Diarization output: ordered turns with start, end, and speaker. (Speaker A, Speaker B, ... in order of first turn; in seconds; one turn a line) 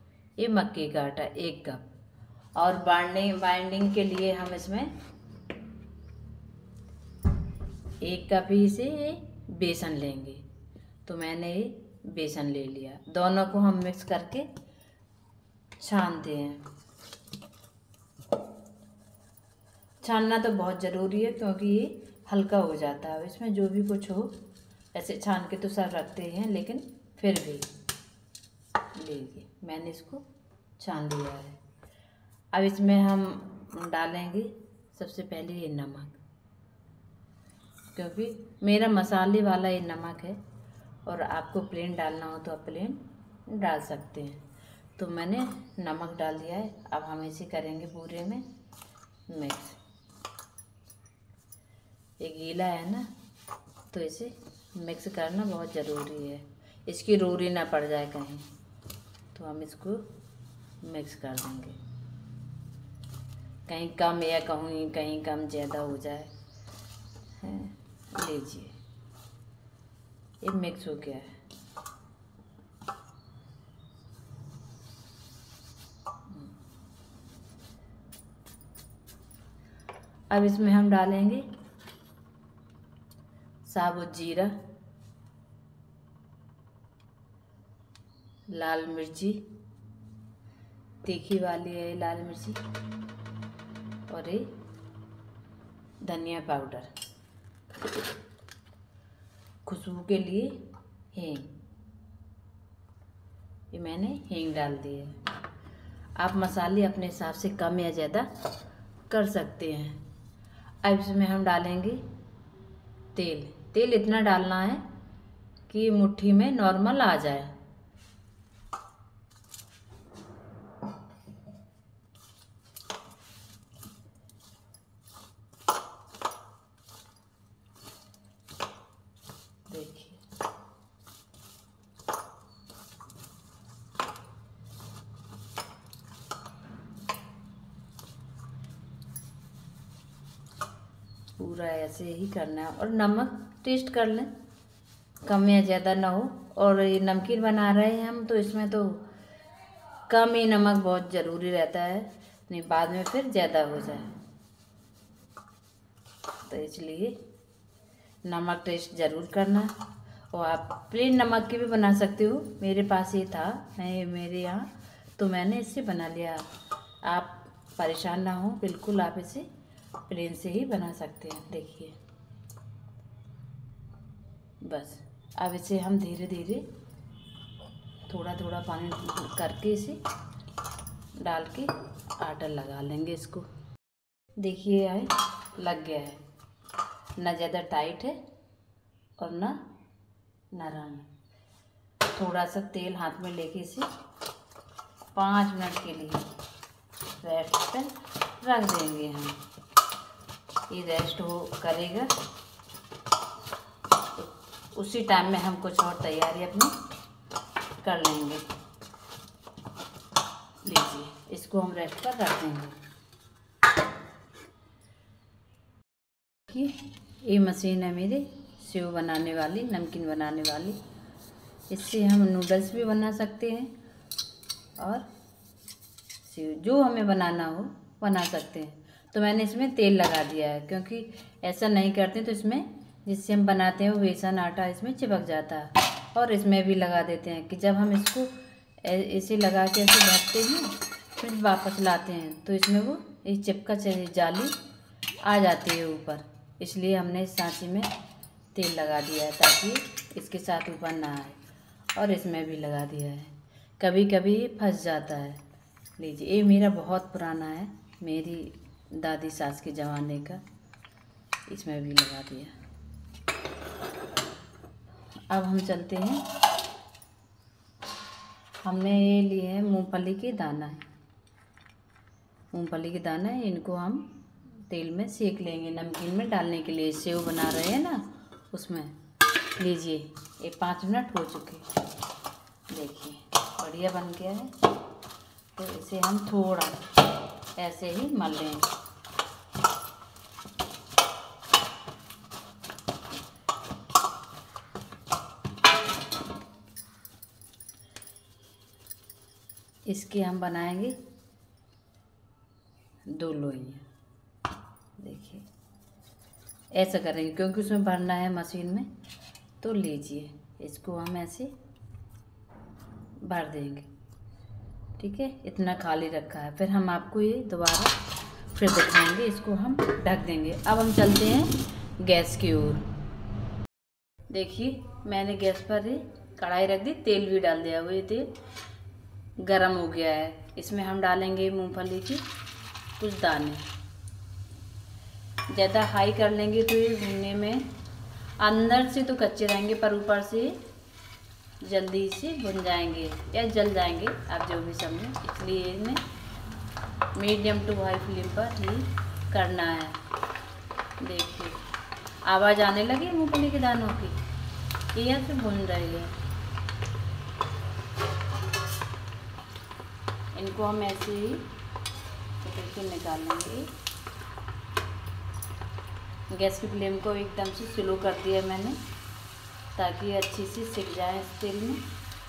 Speaker A: 0.4-1.9
Speaker A: 2.5-4.9
Speaker A: 8.0-10.4
Speaker A: 11.1-14.5
Speaker A: 15.8-16.6
Speaker A: 20.0-24.4
Speaker A: 24.9-27.7
Speaker A: 28.9-30.2
Speaker A: 30.8-31.6
Speaker A: 32.5-36.2
Speaker A: 37.9-40.4
Speaker A: 41.0-44.4
Speaker A: 45.0-48.5
Speaker A: 49.3-49.8
Speaker A: 52.2-53.1
Speaker A: 53.9-58.5
Speaker A: 59.3-60.0
Speaker A: 60.8-61.8
Speaker A: 63.7-66.3
Speaker A: 67.4-68.8
Speaker A: 70.4-71.4
Speaker A: 80.3-81.5
Speaker A: 83.6-84.6
Speaker A: 88.5-89.5
Speaker A: 91.0-92.6
Speaker A: 94.1-94.5
Speaker A: 96.0-96.9
Speaker A: 99.6-101.5
Speaker A: 103.7-105.2
Speaker A: 106.2-108.3
Speaker A: 109.1-110.0
Speaker A: 110.8-112.0
Speaker A: 113.1-114.8
Speaker A: 115.7-117.5
Speaker A: 129.7-130.2
Speaker A: 141.4-144.3
Speaker A: 145.2-149.1
Speaker A: 150.1-154.1
Speaker A: 156.4-157.2
Speaker A: 158.2-159.7
Speaker A: 160.3-166.5
Speaker A: 167.0-169.5
Speaker A: 170.1-172.0
Speaker A: 174.6-176.7
Speaker A: 178.1-180.0
Speaker A: 181.2-183.5
Speaker A: 184.4-186.2
Speaker A: 187.2-188.2
Speaker A: 189.2-189.7
Speaker A: 190.5-191.1
Speaker A: 192.1-193.9
Speaker A: 195.1-196.3
Speaker A: 197.2-199.4
Speaker A: 200.7-202.1
Speaker A: 204.2-206.8
Speaker A: 207.8-208.5
Speaker A: 210.6-212.8
Speaker A: 216.5-220.8
Speaker A: 221.7-223.7
Speaker A: 224.8-225.1
Speaker A: 226.2-244.6
Speaker A: 245.2-247.9
Speaker A: 248.5-251.4
Speaker A: 251.9-255.4
Speaker A: 256.0-260.4
Speaker A: 261.5-262.6
Speaker A: 265.3-266.3
Speaker A: 268.6-270.8
Speaker A: 272.5-278.9
Speaker A: 279.6-281.7
Speaker A: 282.7-284.5
Speaker A: 285.6-286.8
Speaker A: 287.6-288.7
Speaker A: 299.9-301.0
Speaker A: 303.1-303.8
Speaker A: 305.0-305.4
Speaker A: 306.7-308.9
Speaker A: 309.6-311.5
Speaker A: 313.2-313.9
Speaker A: 315.0-318.0
Speaker A: 318.5-322.9
Speaker A: 324.3-328.3
Speaker A: 329.4-332.2
Speaker A: 333.0-333.7
Speaker A: 335.5-337.7
Speaker A: 338.4-340.6
Speaker A: 341.6-346.0
Speaker A: 347.1-350.0
Speaker A: 351.0-351.6
Speaker A: 352.2-354.2
Speaker A: 354.9-356.1
Speaker A: 360.3-361.5
Speaker A: 362.4-363.7
Speaker A: 366.3-368.8
Speaker A: 369.7-371.8